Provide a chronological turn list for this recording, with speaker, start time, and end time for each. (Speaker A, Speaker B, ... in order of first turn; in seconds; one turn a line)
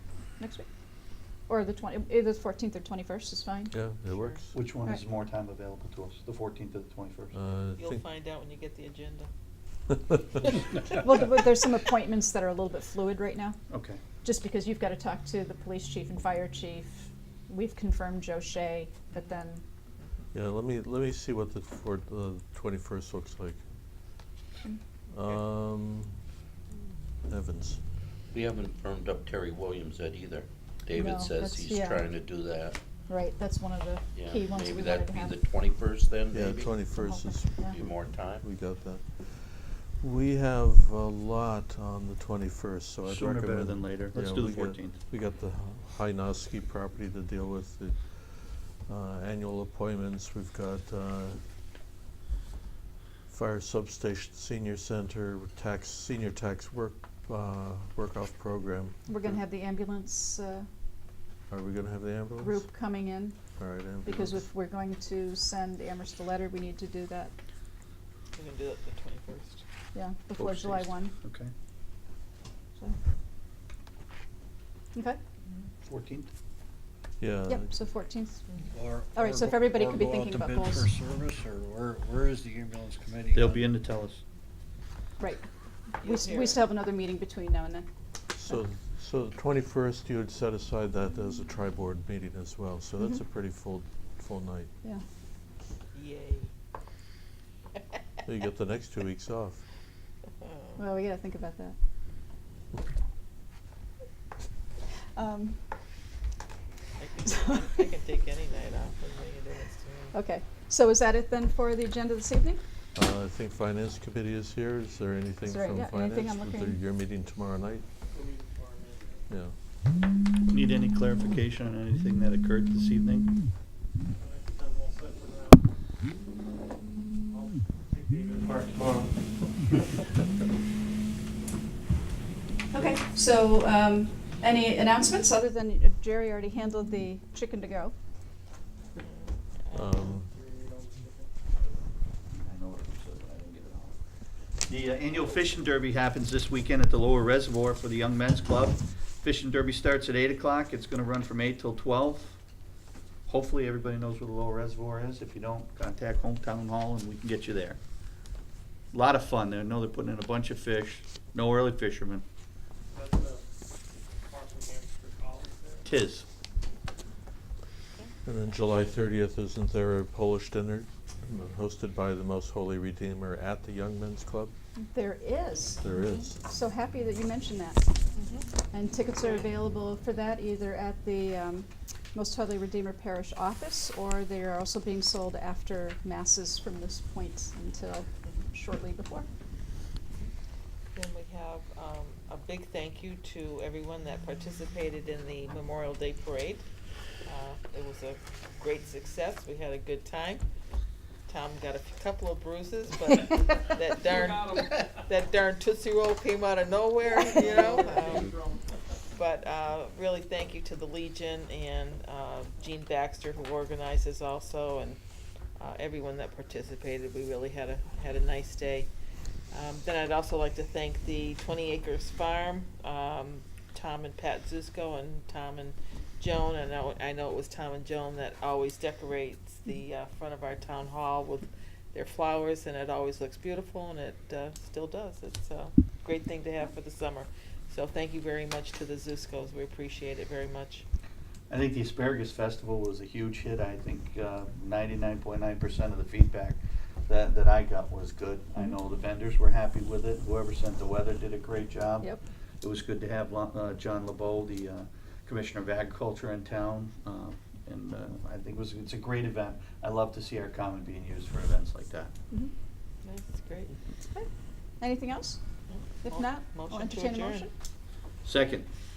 Speaker A: 0.4-0.7
Speaker A: 1.5-3.7
Speaker B: 3.7-4.5
Speaker C: 4.5-7.4
Speaker B: 7.3-8.0
Speaker D: 7.8-9.3
Speaker A: 10.9-13.6
Speaker C: 13.7-14.0
Speaker A: 14.2-19.6
Speaker B: 20.3-23.6
Speaker B: 25.1-26.2
Speaker B: 27.3-27.8
Speaker E: 28.3-32.8
Speaker A: 30.9-32.1
Speaker A: 33.1-35.3
Speaker E: 34.1-36.7
Speaker B: 36.3-51.4
Speaker A: 36.9-37.8
Speaker E: 37.6-38.4
Speaker C: 43.0-45.0
Speaker B: 53.3-59.4
Speaker A: 59.1-60.7
Speaker B: 61.5-62.7
Speaker A: 62.4-63.4
Speaker B: 63.5-64.5
Speaker A: 64.0-67.3
Speaker D: 68.3-69.6
Speaker A: 69.9-71.1
Speaker C: 70.3-71.5
Speaker C: 75.8-76.3
Speaker B: 77.2-77.7
Speaker A: 77.5-78.4
Speaker F: 78.7-83.7
Speaker A: 79.1-80.9
Speaker C: 83.3-84.2
Speaker A: 85.2-85.4
Speaker A: 86.0-87.8
Speaker D: 86.0-86.6
Speaker B: 88.3-94.7
Speaker D: 95.9-96.5
Speaker B: 98.2-99.6
Speaker D: 100.4-100.8
Speaker A: 100.8-101.8
Speaker A: 105.1-105.6
Speaker D: 107.0-110.1
Speaker A: 110.1-112.6
Speaker B: 112.9-117.8
Speaker A: 115.5-116.8
Speaker G: 118.1-119.2
Speaker B: 119.3-119.5
Speaker C: 120.5-123.3
Speaker G: 124.1-125.7
Speaker G: 127.2-128.9
Speaker B: 128.4-129.1
Speaker A: 132.7-137.9
Speaker D: 138.9-140.1
Speaker B: 139.7-140.3
Speaker G: 140.3-141.8
Speaker C: 142.3-144.0
Speaker C: 144.6-152.4
Speaker C: 153.3-157.8
Speaker C: 158.9-162.2
Speaker G: 162.9-165.8
Speaker C: 165.8-166.2
Speaker B: 168.2-174.5
Speaker A: 174.8-175.8
Speaker B: 175.8-176.4
Speaker D: 175.9-176.3
Speaker A: 176.4-177.8
Speaker D: 178.2-178.5
Speaker A: 178.7-189.3
Speaker D: 190.9-196.7
Speaker D: 197.2-200.4
Speaker D: 201.3-208.4
Speaker G: 204.0-205.0
Speaker G: 207.2-208.6
Speaker D: 209.1-215.0
Speaker D: 215.6-218.9
Speaker D: 219.5-240.8
Speaker C: 241.5-262.1
Speaker D: 263.0-263.8
Speaker A: 264.8-265.4
Speaker D: 265.7-267.5
Speaker A: 266.0-267.5
Speaker C: 268.2-268.7